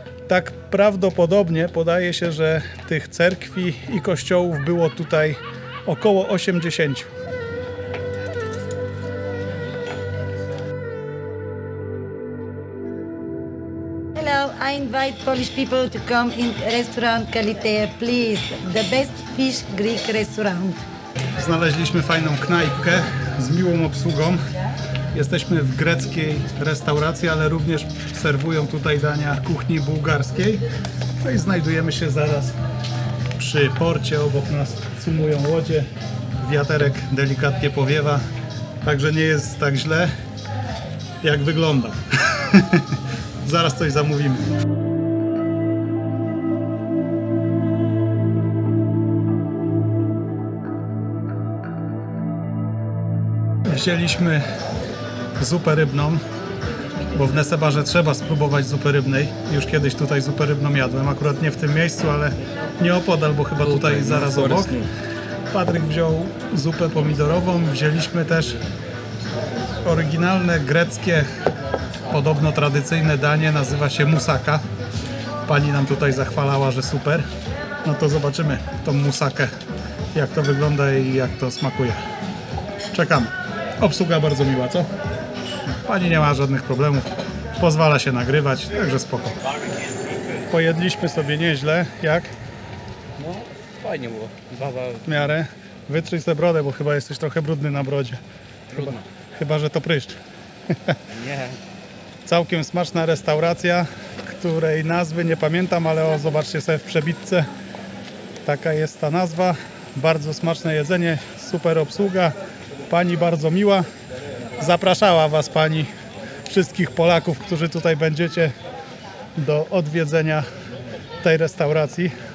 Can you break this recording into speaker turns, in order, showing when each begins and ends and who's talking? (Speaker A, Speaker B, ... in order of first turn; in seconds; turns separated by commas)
Speaker A: 0.3-7.1, Speaker B: 14.2-20.8, Speaker A: 21.4-24.4, Speaker A: 25.1-30.6, Speaker A: 31.2-32.6, Speaker A: 33.4-35.9, Speaker A: 36.4-38.2, Speaker A: 38.8-40.1, Speaker A: 41.2-44.5, Speaker A: 53.7-54.5, Speaker A: 55.4-56.2, Speaker A: 57.1-64.8, Speaker C: 63.6-64.9, Speaker A: 65.5-68.6, Speaker A: 69.8-71.3, Speaker A: 72.1-74.6, Speaker A: 75.5-77.3, Speaker A: 77.8-79.5, Speaker A: 80.1-82.0, Speaker A: 82.9-84.9, Speaker A: 85.8-89.4, Speaker A: 90.5-92.3, Speaker C: 93.2-95.1, Speaker A: 95.0-98.2, Speaker C: 98.7-99.1, Speaker A: 98.8-100.2, Speaker A: 100.7-101.0, Speaker C: 101.1-101.6, Speaker A: 102.3-107.5, Speaker A: 108.5-112.4, Speaker A: 112.9-113.9, Speaker A: 114.6-115.9, Speaker A: 116.5-118.5, Speaker A: 119.4-120.5, Speaker A: 121.2-122.1